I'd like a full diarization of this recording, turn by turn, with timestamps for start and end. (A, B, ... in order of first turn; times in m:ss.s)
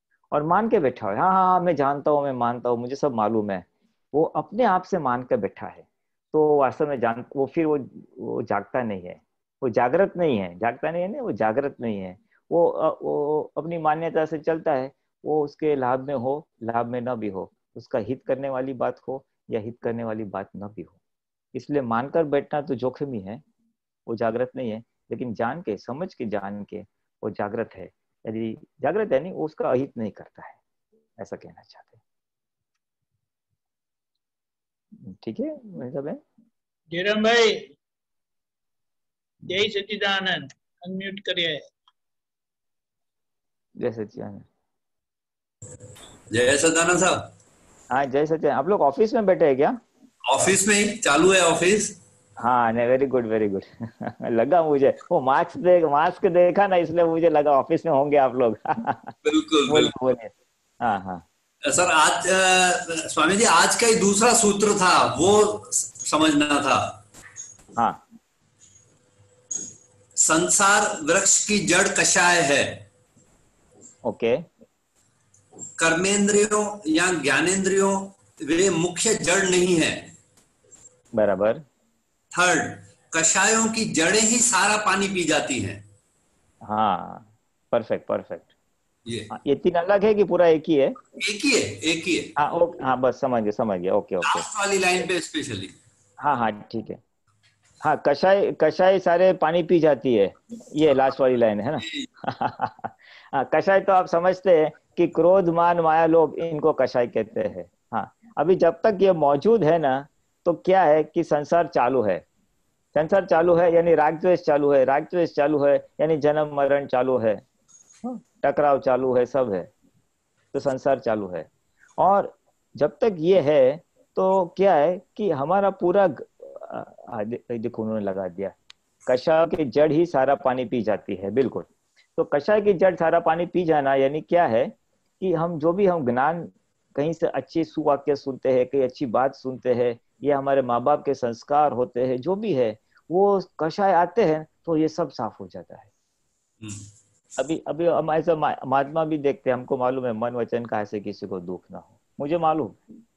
0:00.3-0:21.0 A
0:21.5-0:23.4 A
0:24.1-0:30.6 A
0:31.2-0:32.0 A
0:35.0-0:36.2 A
0:36.9-0:37.7 B
0:39.5-0:41.6 B
0:43.8-0:44.4 A
0:46.3-0:47.3 C
0:47.9-0:49.8 A
0:50.3-0:52.0 C
0:52.4-0:59.1 A
0:59.2-0:59.9 C
0:59.7-1:01.2 A
1:01.6-1:07.0 C
1:07.8-1:08.0 A
1:10.2-1:12.8 C
1:14.0-1:14.4 A
1:15.8-1:20.1 C
1:21.1-1:21.6 A
1:22.3-1:25.8 C
1:26.6-1:28.5 A
1:29.3-1:31.0 A
1:31.2-1:32.3 C
1:32.4-1:34.4 A
1:34.2-1:35.8 C
1:36.2-1:37.0 A
1:37.8-1:52.2 A
1:41.8-1:42.0 C
1:52.9-1:57.4 A
1:58.0-1:59.7 A
2:00.5-2:01.5 A
2:02.0-2:08.6 A
2:09.1-2:25.9 A
2:27.4-2:32.8 A